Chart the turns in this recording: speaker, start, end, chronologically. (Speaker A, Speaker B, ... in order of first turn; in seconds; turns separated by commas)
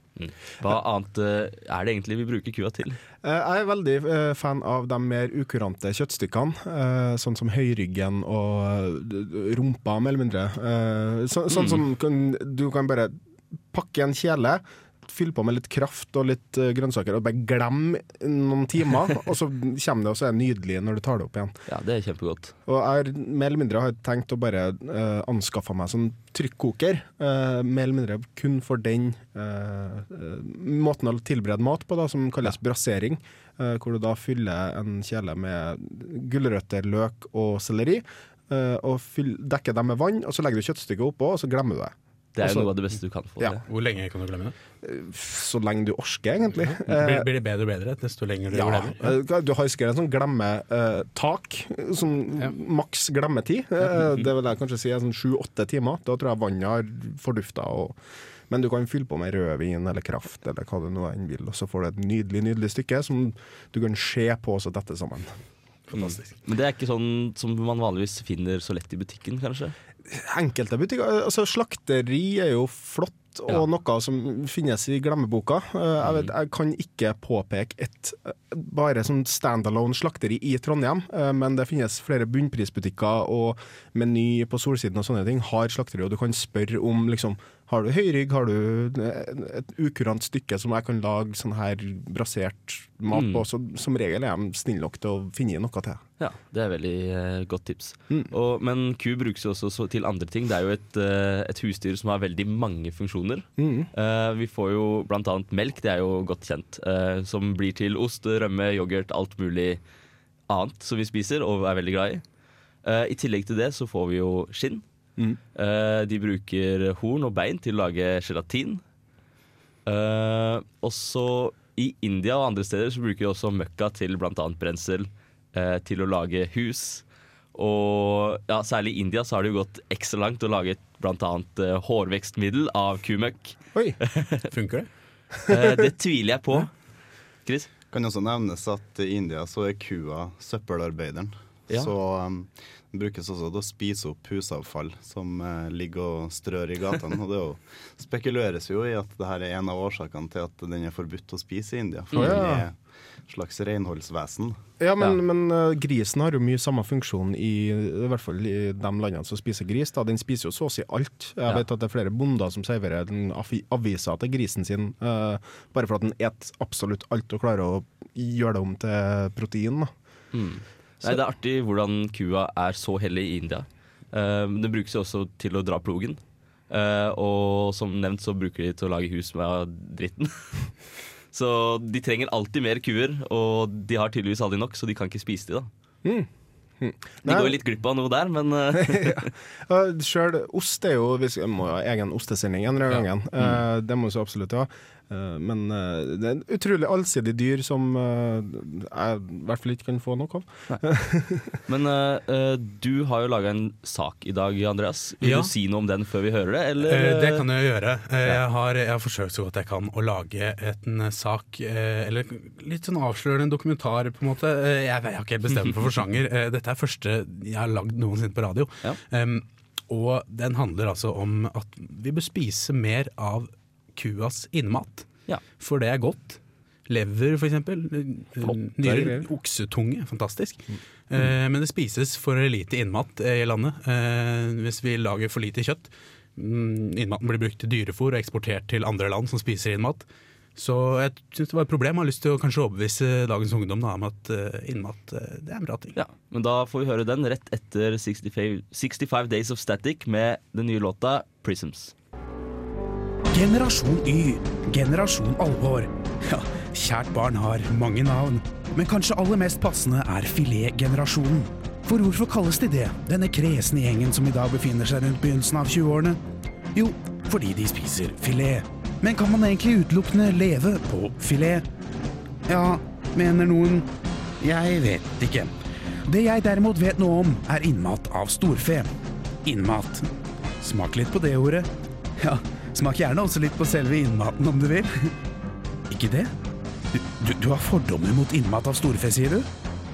Speaker A: 0.2-3.0, Speaker B: 3.2-13.1, Speaker A: 11.5-11.8, Speaker B: 13.7-21.5, Speaker A: 21.7-22.5, Speaker B: 22.7-42.7, Speaker A: 42.4-43.6, Speaker C: 43.7-44.5, Speaker B: 44.8-47.3, Speaker C: 46.6-49.1, Speaker B: 48.5-58.0, Speaker B: 58.5-65.3, Speaker C: 65.9-66.2, Speaker A: 65.9-69.8, Speaker B: 70.1-96.0, Speaker A: 76.0-76.3, Speaker A: 93.1-93.4, Speaker A: 96.2-109.8, Speaker B: 103.6-103.9, Speaker A: 110.5-112.2, Speaker A: 112.8-114.8, Speaker A: 115.5-118.8, Speaker A: 119.8-134.4, Speaker C: 134.5-134.9, Speaker A: 135.5-136.7, Speaker D: 137.9-154.6, Speaker A: 152.1-152.4, Speaker B: 152.2-152.7, Speaker B: 154.8-169.9, Speaker A: 170.3-180.7, Speaker A: 181.3-185.7, Speaker B: 186.8-187.6, Speaker A: 187.2-189.3, Speaker B: 188.8-201.6, Speaker A: 201.7-207.5, Speaker C: 205.2-205.5, Speaker C: 206.8-240.0, Speaker B: 228.8-229.3, Speaker C: 240.6-245.9, Speaker A: 245.9-251.9, Speaker E: 253.3-266.2, Speaker E: 266.7-271.6, Speaker E: 272.5-273.9, Speaker E: 274.4-275.5, Speaker E: 276.1-278.9, Speaker E: 279.4-280.1, Speaker E: 280.6-285.1, Speaker E: 285.9-286.3, Speaker E: 286.9-289.5